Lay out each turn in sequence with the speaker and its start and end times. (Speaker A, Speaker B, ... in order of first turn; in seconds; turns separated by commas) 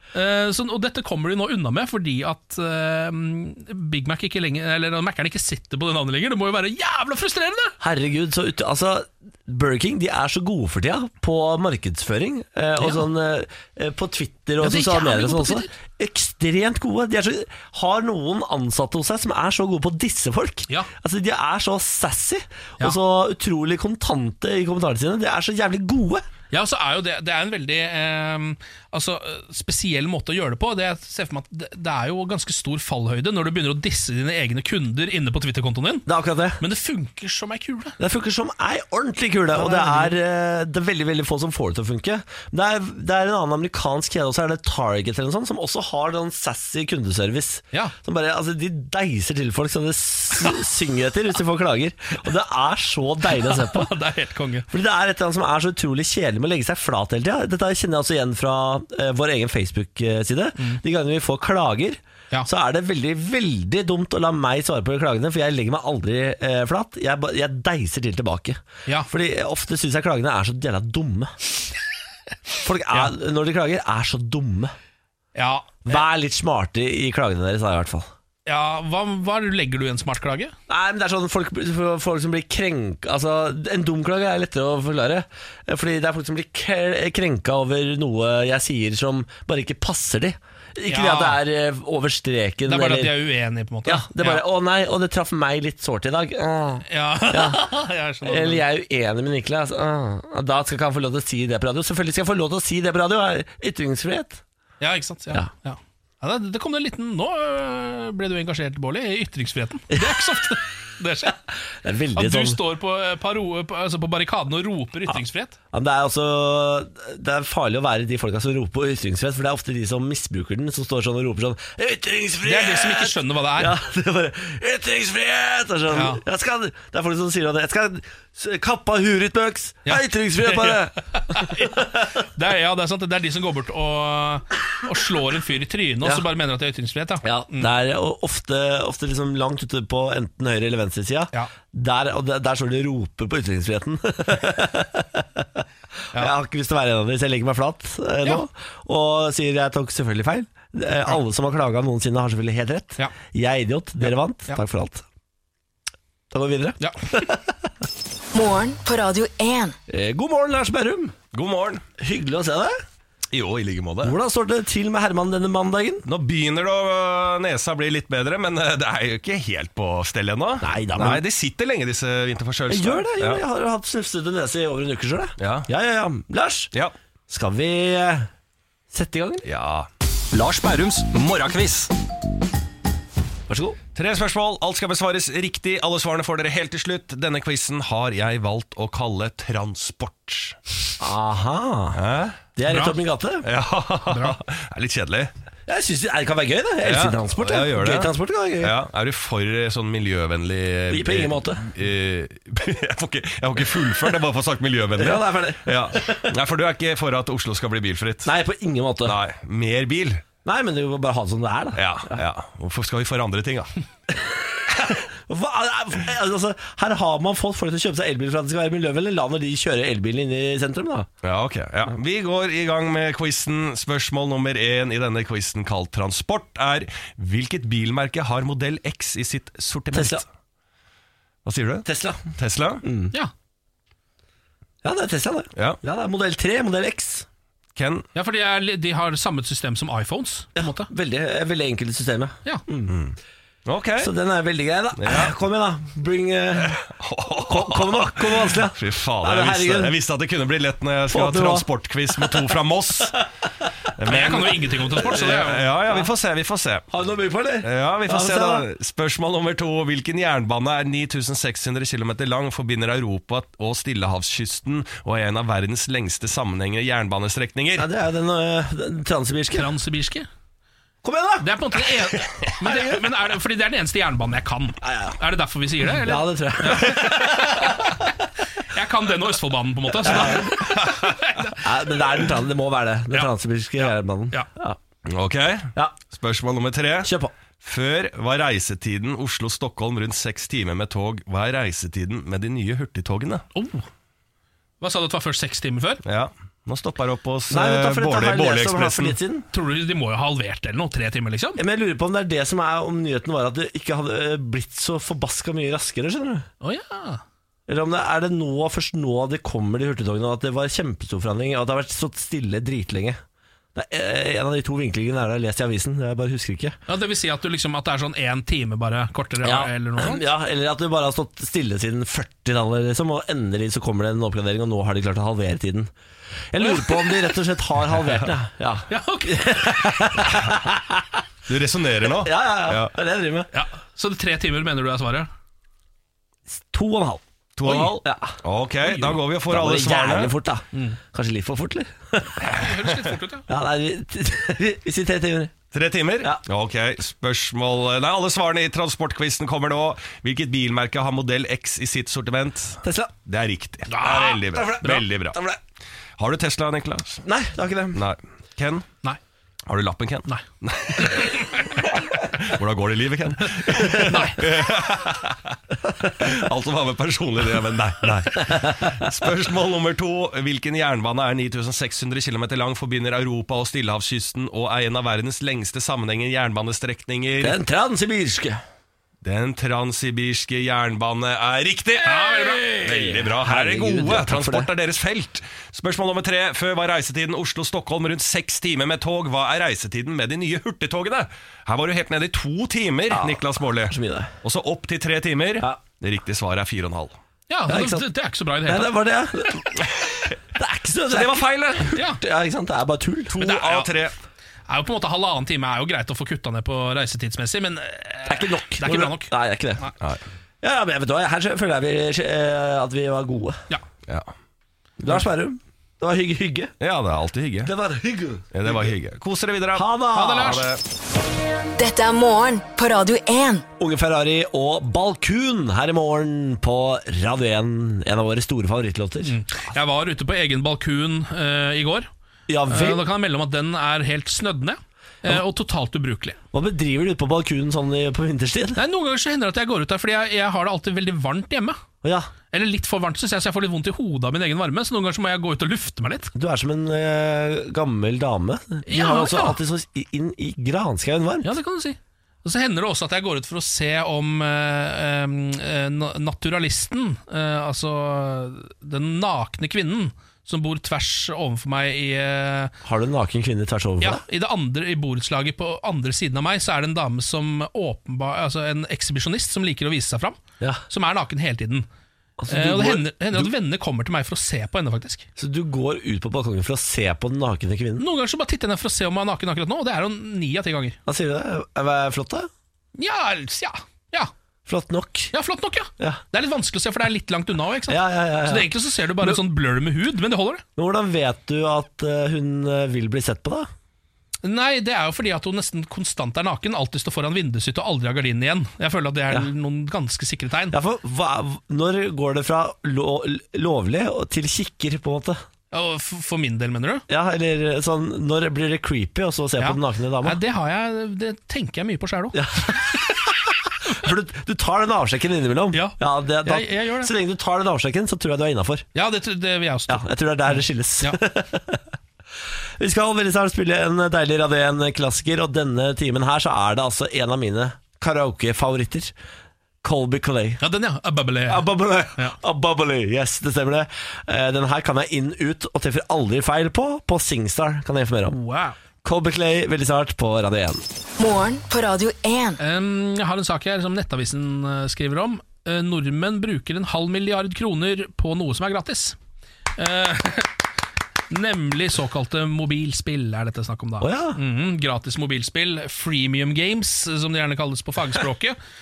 Speaker A: 0.1-7.8, Speaker B: 7.8-26.2, Speaker A: 12.8-13.1, Speaker A: 14.6-15.7, Speaker A: 26.5-36.1, Speaker B: 36.1-36.6, Speaker A: 36.6-38.0, Speaker B: 38.0-53.9, Speaker A: 39.6-40.1, Speaker A: 53.3-54.7, Speaker B: 54.7-71.3, Speaker B: 72.6-74.7, Speaker A: 75.3-76.0, Speaker B: 75.8-78.1, Speaker A: 78.5-80.5, Speaker B: 80.7-93.1, Speaker A: 90.9-91.4, Speaker A: 92.7-94.5, Speaker B: 93.9-97.7, Speaker A: 96.9-98.6, Speaker B: 98.2-104.4, Speaker A: 104.8-111.4, Speaker B: 111.8-112.6, Speaker A: 112.2-115.6, Speaker B: 115.7-132.1, Speaker A: 122.4-123.8, Speaker A: 125.9-126.2, Speaker A: 129.9-137.7, Speaker B: 137.2-155.1, Speaker B: 156.3-157.5, Speaker A: 156.8-157.1, Speaker C: 158.3-159.8, Speaker B: 159.9-161.2, Speaker D: 161.3-161.8, Speaker B: 162.0-162.8, Speaker D: 163.3-164.2, Speaker B: 164.0-166.1, Speaker D: 166.1-173.4, Speaker B: 170.6-171.2, Speaker B: 172.7-176.7, Speaker D: 175.4-175.7, Speaker B: 177.3-178.3, Speaker B: 178.9-179.5, Speaker D: 179.4-181.9, Speaker B: 183.5-183.8, Speaker D: 183.9-190.6, Speaker B: 191.0-192.0, Speaker D: 192.0-192.5, Speaker B: 192.6-193.5, Speaker A: 192.7-193.0, Speaker D: 193.4-195.3, Speaker A: 194.1-194.4, Speaker B: 195.7-198.8, Speaker D: 196.8-208.3, Speaker B: 200.9-201.7, Speaker B: 205.0-206.3, Speaker B: 208.2-209.2, Speaker D: 209.1-210.2, Speaker B: 210.4-212.2, Speaker D: 211.8-213.7, Speaker B: 214.1-221.1, Speaker D: 221.2-230.2, Speaker B: 229.9-230.2, Speaker D: 231.4-232.8, Speaker B: 231.8-232.3, Speaker B: 232.8-233.2, Speaker B: 234.8-237.3, Speaker D: 237.8-238.1, Speaker A: 238.2-240.9, Speaker B: 240.6-242.9, Speaker D: 242.9-244.1, Speaker B: 244.0-246.9, Speaker D: 245.0-245.3, Speaker D: 246.6-253.2, Speaker B: 247.5-250.0, Speaker B: 251.1-252.5, Speaker D: 254.0-256.9, Speaker A: 254.1-255.7, Speaker B: 256.9-258.6, Speaker D: 257.6-267.9, Speaker B: 267.8-269.7, Speaker A: 269.5-270.3, Speaker B: 271.0-271.5, Speaker A: 271.4-278.0, Speaker B: 272.6-273.0, Speaker B: 274.8-275.2, Speaker B: 275.9-278.1, Speaker A: 278.6-281.6, Speaker B: 280.0-280.8, Speaker D: 280.5-281.5, Speaker B: 281.6-284.8, Speaker A: 283.1-284.5, Speaker D: 285.1-293.4, Speaker B: 287.0-287.3, Speaker A: 293.6-293.9, Speaker A: 294.8-296.0, Speaker D: 296.1-299.2, Speaker B: 297.5-299.5, Speaker A: 299.5-301.6, Speaker B: 301.6-306.5, Speaker A: 306.6-307.2, Speaker B: 307.7-313.2, Speaker B: 313.8-316.8, Speaker A: 316.9-320.2, Speaker B: 319.4-325.9, Speaker B: 326.5-331.2, Speaker A: 326.6-327.3, Speaker A: 328.9-330.1, Speaker D: 331.5-332.9, Speaker B: 332.2-333.5, Speaker A: 333.5-335.3, Speaker B: 336.5-338.4, Speaker D: 337.6-340.4, Speaker A: 338.9-339.2, Speaker B: 339.5-342.6, Speaker D: 342.4-342.7, Speaker A: 342.5-343.5, Speaker B: 343.5-345.5, Speaker D: 345.7-355.4, Speaker B: 352.8-353.1, Speaker A: 353.9-355.0, Speaker B: 354.3-355.6, Speaker D: 356.2-357.2, Speaker B: 357.2-358.0, Speaker D: 357.9-358.9, Speaker D: 359.7-365.6, Speaker A: 361.0-361.7, Speaker A: 364.0-364.4, Speaker D: 366.2-377.6, Speaker B: 368.4-369.1, Speaker B: 377.4-378.6, Speaker D: 379.2-397.1, Speaker A: 382.0-383.0, Speaker B: 382.6-384.7, Speaker B: 393.1-394.3, Speaker A: 397.5-398.9, Speaker B: 397.7-398.1, Speaker B: 398.7-403.4, Speaker D: 401.1-402.0, Speaker A: 401.9-402.2, Speaker D: 403.3-404.1, Speaker A: 403.4-403.9, Speaker A: 404.7-409.9, Speaker B: 408.3-409.9, Speaker B: 410.6-413.6, Speaker B: 415.0-416.7, Speaker D: 416.8-417.7, Speaker B: 417.6-418.9, Speaker D: 418.5-420.8, Speaker B: 419.7-420.7, Speaker A: 420.1-420.7, Speaker C: 421.8-423.6, Speaker B: 423.8-429.4, Speaker A: 429.2-432.1, Speaker B: 432.5-433.0, Speaker A: 432.7-436.4, Speaker B: 436.5-438.8, Speaker A: 438.8-441.8, Speaker B: 442.0-442.3, Speaker A: 442.5-446.3, Speaker B: 446.3-451.5, Speaker A: 448.9-449.6, Speaker A: 451.4-462.7, Speaker B: 462.8-464.2, Speaker A: 464.0-471.9, Speaker B: 472.4-473.5, Speaker A: 472.5-475.3, Speaker B: 475.4-478.1, Speaker A: 478.0-481.0, Speaker B: 481.1-482.5, Speaker A: 483.0-484.3, Speaker B: 484.7-485.3, Speaker A: 485.3-490.6, Speaker B: 487.9-489.4, Speaker B: 490.8-493.7, Speaker A: 494.4-500.8, Speaker B: 500.7-505.4, Speaker A: 505.7-507.1, Speaker B: 507.1-510.4, Speaker A: 509.6-512.5, Speaker B: 512.3-518.9, Speaker A: 515.7-517.1, Speaker A: 519.0-521.2, Speaker B: 519.9-521.8, Speaker B: 522.8-529.1, Speaker B: 529.8-530.6, Speaker A: 530.6-531.7, Speaker B: 531.5-538.4, Speaker A: 538.3-538.8, Speaker B: 539.0-540.8, Speaker C: 541.2-542.6, Speaker A: 542.6-549.2, Speaker A: 549.8-550.6, Speaker A: 551.3-558.6, Speaker B: 554.0-554.4